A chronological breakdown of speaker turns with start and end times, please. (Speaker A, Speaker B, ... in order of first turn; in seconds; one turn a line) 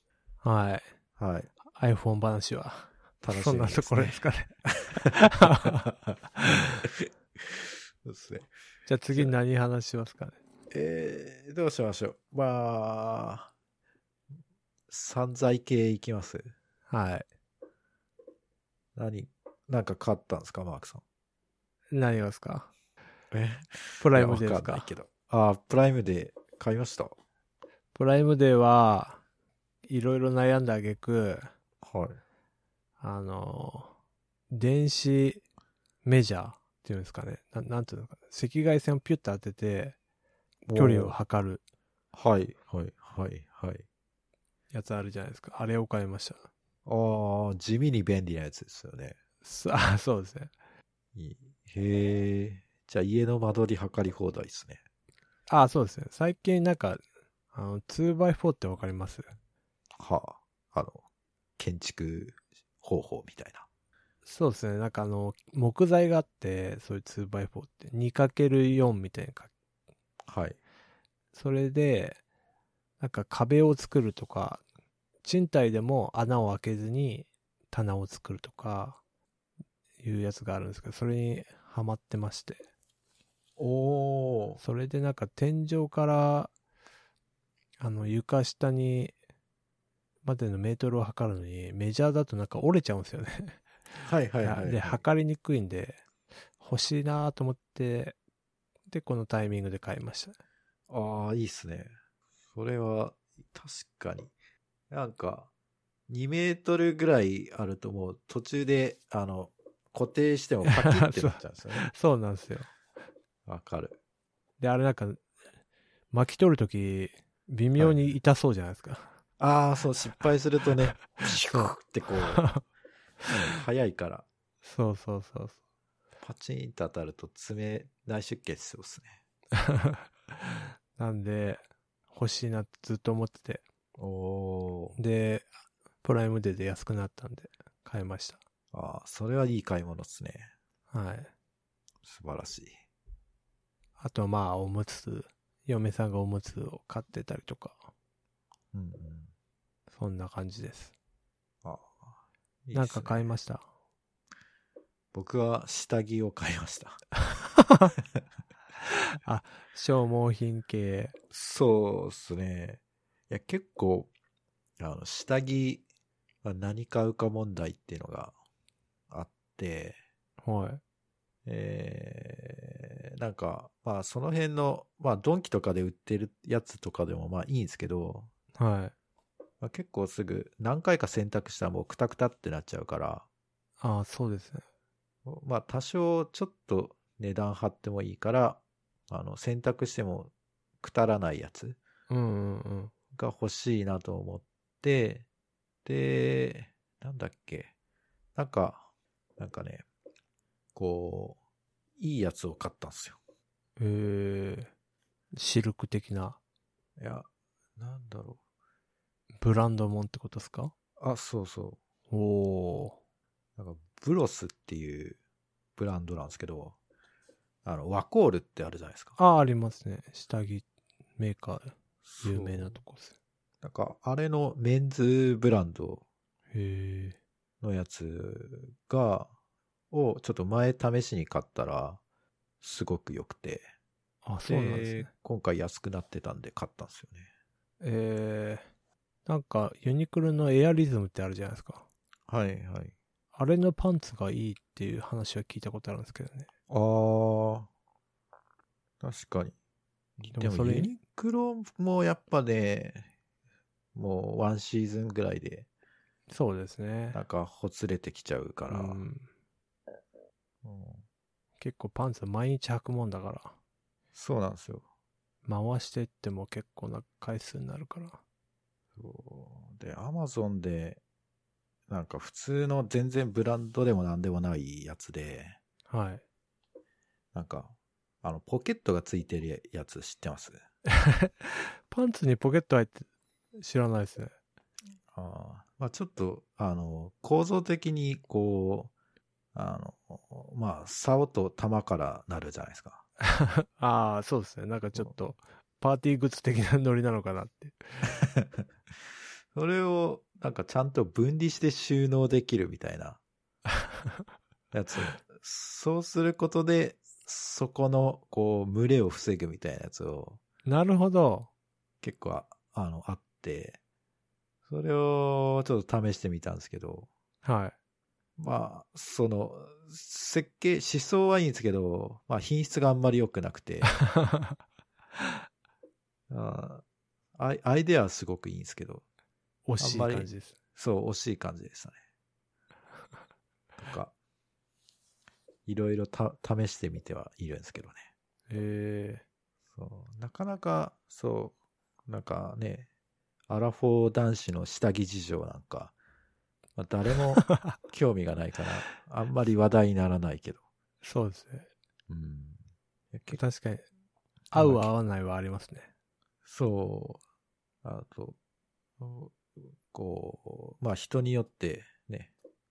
Speaker A: 0.4-0.9
Speaker B: 1.2-1.5
Speaker A: 1.7-5.8
Speaker B: 3.2-8.5
Speaker A: 6.4-6.8
Speaker A: 8.9-10.4
Speaker B: 10.7-13.5
Speaker B: 14.9-16.5
Speaker A: 16.9-17.3
Speaker B: 19.0-21.0
Speaker A: 21.9-22.7
Speaker B: 23.3-27.2
Speaker A: 24.0-24.9
Speaker A: 27.9-29.2
Speaker A: 29.9-31.5
Speaker B: 31.8-32.2
Speaker A: 33.0-33.9
Speaker A: 34.5-35.4
Speaker A: 36.0-40.0
Speaker B: 40.7-41.2
Speaker A: 40.7-41.6
Speaker B: 42.1-43.9
Speaker A: 44.7-46.5
Speaker B: 46.9-49.2
Speaker A: 49.4-50.5
Speaker B: 51.1-54.8
Speaker A: 55.5-59.3
Speaker B: 60.0-61.0
Speaker B: 61.6-63.7
Speaker A: 64.3-69.5
Speaker B: 70.3-70.6
Speaker A: 71.3-72.2
Speaker A: 73.0-74.6
Speaker A: 75.2-79.0
Speaker A: 80.0-82.6
Speaker B: 83.6-84.6
Speaker A: 84.6-86.5
Speaker A: 87.8-89.1
Speaker A: 90.2-93.6
Speaker B: 94.0-95.0
Speaker A: 94.4-96.0
Speaker A: 96.6-98.2
Speaker A: 98.9-100.4
Speaker B: 100.9-101.9
Speaker B: 102.5-104.3
Speaker B: 104.9-105.5
Speaker B: 106.1-111.9
Speaker A: 110.7-112.7
Speaker B: 113.5-114.0
Speaker A: 114.6-115.2
Speaker A: 116.1-119.1
Speaker B: 119.4-122.5
Speaker A: 121.5-122.6
Speaker B: 123.3-124.3
Speaker A: 124.6-125.6
Speaker B: 126.2-129.2
Speaker A: 129.6-133.6
Speaker B: 134.0-135.0
Speaker A: 135.0-135.5
Speaker A: 136.0-138.4
Speaker B: 138.7-140.5
Speaker A: 140.9-141.3
Speaker B: 142.0-142.8
Speaker A: 144.0-147.9
Speaker B: 148.7-149.3
Speaker A: 149.9-150.9
Speaker B: 151.6-152.0
Speaker B: 152.7-153.3
Speaker A: 152.7-153.7
Speaker B: 155.1-157.0
Speaker A: 157.6-157.9
Speaker A: 158.9-161.2
Speaker B: 161.3-164.1
Speaker B: 164.8-165.8
Speaker B: 166.4-168.3
Speaker B: 169.1-170.0
Speaker A: 170.4-170.8
Speaker B: 171.5-178.3
Speaker A: 178.6-178.9
Speaker B: 179.6-183.3
Speaker A: 183.8-184.7
Speaker B: 185.2-191.8
Speaker A: 192.1-192.9
Speaker B: 193.1-195.3
Speaker B: 195.8-197.7
Speaker B: 198.4-198.9
Speaker B: 199.4-199.9
Speaker B: 200.8-201.4
Speaker B: 202.0-203.2
Speaker A: 203.8-204.7
Speaker A: 205.3-206.4
Speaker B: 207.0-208.4
Speaker A: 209.4-210.7
Speaker B: 211.0-211.8
Speaker A: 212.1-213.0
Speaker B: 213.6-215.2
Speaker B: 215.8-216.8
Speaker B: 217.7-219.2
Speaker A: 219.2-220.7
Speaker A: 221.2-223.1
Speaker B: 222.0-222.8
Speaker B: 223.6-226.0
Speaker A: 226.5-227.2
Speaker B: 227.6-229.3
Speaker B: 229.9-232.0
Speaker B: 232.6-233.7
Speaker A: 234.2-235.1
Speaker B: 234.5-237.3
Speaker A: 237.8-238.6
Speaker A: 239.3-241.9
Speaker B: 242.3-242.9
Speaker A: 243.3-246.5
Speaker B: 246.7-247.7
Speaker B: 249.0-249.6
Speaker B: 250.2-253.1
Speaker A: 250.3-250.9
Speaker B: 253.9-255.7
Speaker A: 256.3-257.2
Speaker B: 257.1-259.0
Speaker A: 258.7-259.3
Speaker B: 260.6-261.0
Speaker A: 261.6-263.6
Speaker B: 264.1-264.9
Speaker A: 265.4-268.2
Speaker B: 269.0-271.0
Speaker B: 271.9-275.6
Speaker A: 275.9-276.2
Speaker B: 277.3-280.6
Speaker A: 280.9-283.1
Speaker A: 283.6-284.3
Speaker B: 285.1-288.9
Speaker B: 289.5-293.1
Speaker A: 293.4-297.8
Speaker B: 298.1-298.6
Speaker B: 299.5-303.2
Speaker B: 304.7-310.4
Speaker A: 310.7-311.5
Speaker B: 312.0-313.8
Speaker B: 314.7-317.1
Speaker A: 317.4-317.8
Speaker B: 318.4-323.9
Speaker A: 324.1-324.5
Speaker B: 326.3-326.8
Speaker B: 327.4-329.0
Speaker A: 329.7-330.5
Speaker B: 329.8-332.0
Speaker B: 333.8-334.1
Speaker B: 335.7-338.1
Speaker A: 338.5-339.2
Speaker B: 339.8-341.6
Speaker B: 342.1-342.9
Speaker B: 343.5-345.9
Speaker B: 346.8-350.6
Speaker A: 347.5-347.8
Speaker A: 351.0-351.7
Speaker B: 352.1-352.6
Speaker B: 353.1-353.4
Speaker A: 353.3-353.9
Speaker B: 354.5-354.9
Speaker A: 354.5-355.9
Speaker B: 356.4-357.2
Speaker B: 357.8-358.4
Speaker B: 359.0-362.3